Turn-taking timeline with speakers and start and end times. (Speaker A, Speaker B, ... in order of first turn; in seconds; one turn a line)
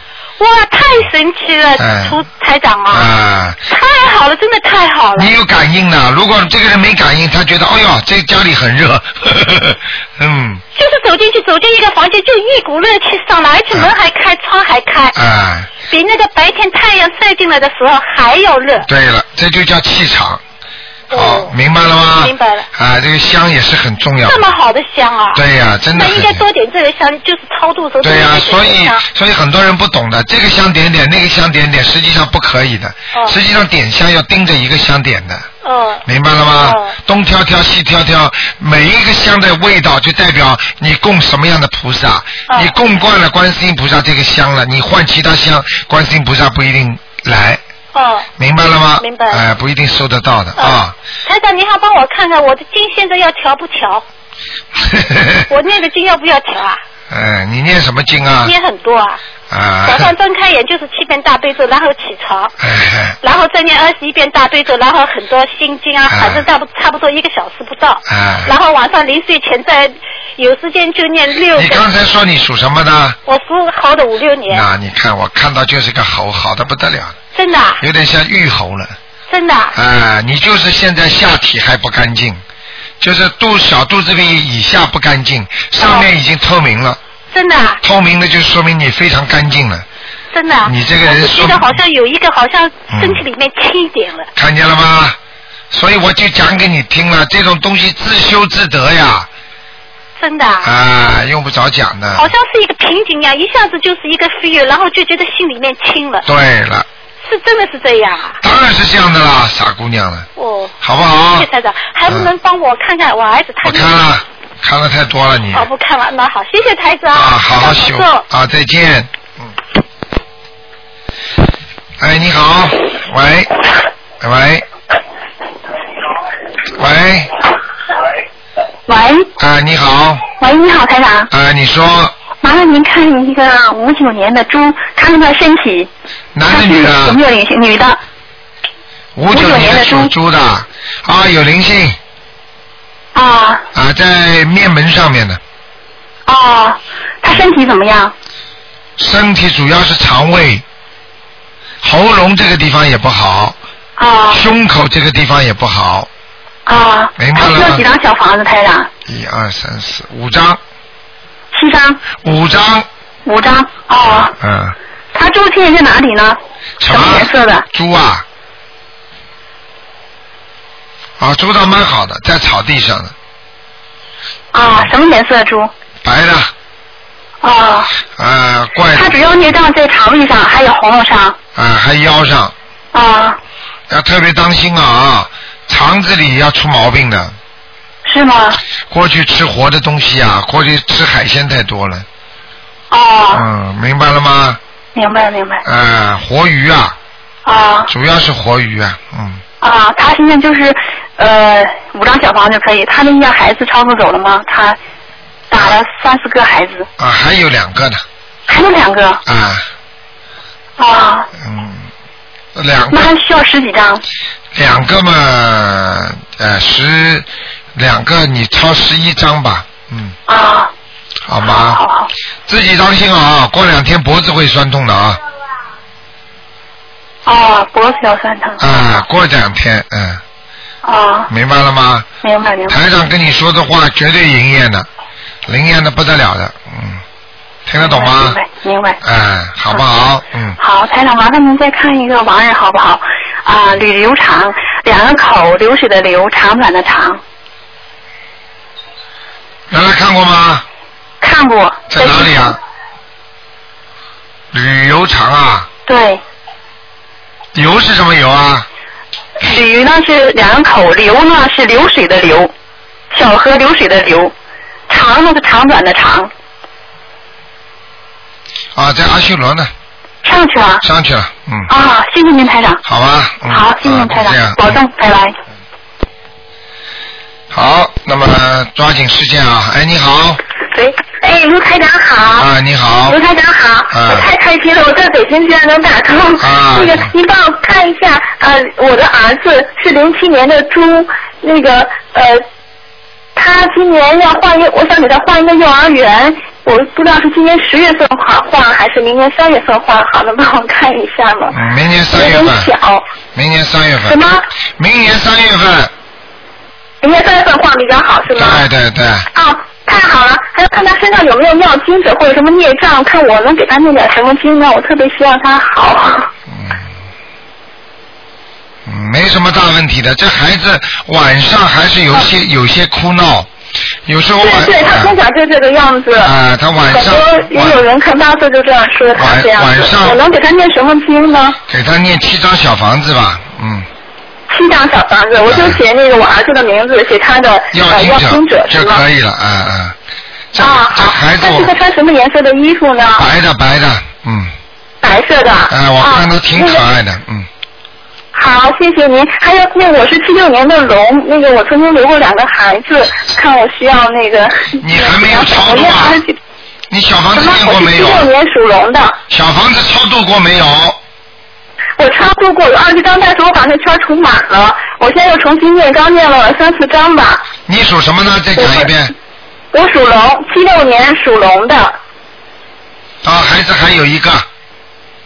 Speaker A: 0.4-3.1
Speaker B: 1.8-2.2
Speaker B: 2.9-3.6
Speaker A: 3.7-5.3
Speaker B: 5.2-10.6
Speaker A: 10.7-15.2
Speaker B: 15.1-15.7
Speaker A: 15.9-18.9
Speaker B: 18.8-20.4
Speaker A: 21.1-21.5
Speaker B: 21.1-24.4
Speaker A: 22.1-22.7
Speaker A: 24.2-29.0
Speaker B: 25.3-26.4
Speaker B: 28.0-35.5
Speaker A: 33.1-33.4
Speaker A: 35.6-36.9
Speaker B: 36.0-47.6
Speaker A: 42.5-42.7
Speaker A: 47.9-48.3
Speaker B: 48.4-50.9
Speaker A: 49.0-49.4
Speaker A: 50.6-54.0
Speaker B: 54.7-55.5
Speaker A: 55.5-56.8
Speaker B: 57.1-58.5
Speaker A: 58.4-59.2
Speaker B: 59.5-60.1
Speaker A: 59.8-62.5
Speaker B: 62.6-63.2
Speaker A: 63.2-71.8
Speaker B: 66.1-66.5
Speaker B: 68.1-68.5
Speaker B: 71.5-73.2
Speaker A: 73.2-74.7
Speaker B: 74.5-77.2
Speaker A: 77.3-77.8
Speaker B: 77.8-79.0
Speaker A: 79.3-79.7
Speaker B: 79.7-82.4
Speaker B: 83.0-87.0
Speaker A: 85.8-86.1
Speaker A: 87.3-87.8
Speaker B: 87.8-89.8
Speaker A: 90.3-94.3
Speaker B: 90.6-91.8
Speaker B: 92.9-93.2
Speaker B: 94.3-95.2
Speaker B: 95.7-99.3
Speaker A: 100.2-100.7
Speaker B: 100.6-102.3
Speaker A: 102.1-106.2
Speaker B: 106.2-106.9
Speaker A: 107.2-108.4
Speaker B: 108.4-110.3
Speaker A: 110.3-110.7
Speaker B: 110.8-111.5
Speaker A: 111.3-114.1
Speaker B: 113.6-115.7
Speaker A: 115.5-118.2
Speaker B: 117.1-119.5
Speaker B: 122.0-123.6
Speaker B: 124.2-124.6
Speaker B: 126.7-127.4
Speaker C: 128.9-129.3
Speaker B: 129.4-130.2
Speaker C: 130.4-131.3
Speaker B: 131.3-132.2
Speaker C: 132.4-135.9
Speaker B: 136.3-137.2
Speaker C: 136.5-138.0
Speaker B: 139.2-142.0
Speaker C: 139.3-140.1
Speaker C: 143.1-143.6
Speaker B: 143.7-145.4
Speaker C: 146.3-148.1
Speaker B: 149.0-150.6
Speaker B: 151.8-153.6
Speaker C: 154.0-154.4
Speaker B: 154.3-156.1
Speaker C: 156.7-158.9
Speaker B: 157.2-157.8
Speaker B: 159.1-160.6
Speaker C: 161.5-162.0
Speaker B: 162.2-162.8
Speaker C: 163.2-164.3
Speaker B: 164.0-164.8
Speaker C: 165.1-167.6
Speaker B: 166.8-168.2
Speaker B: 171.2-173.1
Speaker C: 174.5-175.7
Speaker B: 176.0-176.5
Speaker C: 177.4-177.9
Speaker B: 178.1-179.5
Speaker C: 178.9-181.4
Speaker B: 181.6-182.5
Speaker C: 182.9-183.4
Speaker B: 183.9-187.3
Speaker C: 188.0-188.6
Speaker B: 188.9-192.1
Speaker C: 192.9-193.4
Speaker B: 193.3-194.6
Speaker C: 194.9-195.6
Speaker B: 195.6-196.9
Speaker C: 197.4-197.9
Speaker B: 197.9-199.4
Speaker C: 199.6-204.8
Speaker C: 205.5-206.9
Speaker B: 205.5-205.8
Speaker B: 207.0-208.0
Speaker C: 208.5-209.2
Speaker B: 209.2-209.7
Speaker C: 210.8-211.3
Speaker B: 211.4-211.9
Speaker B: 212.5-213.1
Speaker C: 212.9-214.0
Speaker B: 214.5-220.2
Speaker C: 220.3-220.7
Speaker B: 221.2-221.8
Speaker C: 221.4-222.1
Speaker B: 222.5-225.2
Speaker C: 227.2-228.8
Speaker B: 228.6-230.2
Speaker C: 230.8-231.3
Speaker B: 231.3-232.1
Speaker C: 232.2-232.8
Speaker B: 232.7-234.9
Speaker B: 235.5-237.0
Speaker B: 237.7-238.4
Speaker C: 237.8-239.0
Speaker B: 239.0-240.6
Speaker C: 240.6-247.2
Speaker B: 249.7-250.6
Speaker C: 251.2-252.4
Speaker B: 251.9-252.6
Speaker B: 254.5-255.7
Speaker C: 255.9-256.2
Speaker B: 257.5-258.6
Speaker C: 259.4-262.5
Speaker C: 263.1-264.3
Speaker C: 264.9-266.3
Speaker B: 268.8-269.7
Speaker C: 270.2-270.8
Speaker B: 270.8-271.7
Speaker C: 271.7-272.8
Speaker B: 272.8-274.7
Speaker C: 273.5-275.4
Speaker B: 277.5-280.4
Speaker C: 280.7-282.5
Speaker B: 282.4-283.2
Speaker C: 283.1-292.4
Speaker B: 283.9-284.3
Speaker B: 286.4-287.1
Speaker C: 293.4-301.6
Speaker B: 301.5-302.7
Speaker C: 302.1-303.0
Speaker B: 303.3-304.2
Speaker C: 304.0-304.4
Speaker B: 304.8-305.9
Speaker C: 307.0-308.6
Speaker B: 308.3-309.3
Speaker C: 309.3-316.3
Speaker B: 316.5-316.8
Speaker B: 318.8-323.5
Speaker B: 324.1-325.2
Speaker C: 324.4-326.3
Speaker B: 326.1-327.8
Speaker C: 326.9-331.6
Speaker B: 329.1-330.2
Speaker B: 331.7-333.9
Speaker C: 334.5-339.0
Speaker B: 335.4-335.8
Speaker B: 337.7-339.9
Speaker B: 340.5-341.7
Speaker C: 340.6-343.1
Speaker B: 343.1-344.5
Speaker C: 345.0-346.8
Speaker B: 345.7-347.5
Speaker C: 348.3-356.2
Speaker B: 354.8-356.2
Speaker B: 356.9-358.3
Speaker C: 357.3-359.1
Speaker B: 359.3-361.0
Speaker C: 362.0-367.4
Speaker B: 367.7-369.1
Speaker C: 369.7-371.9
Speaker B: 373.2-374.4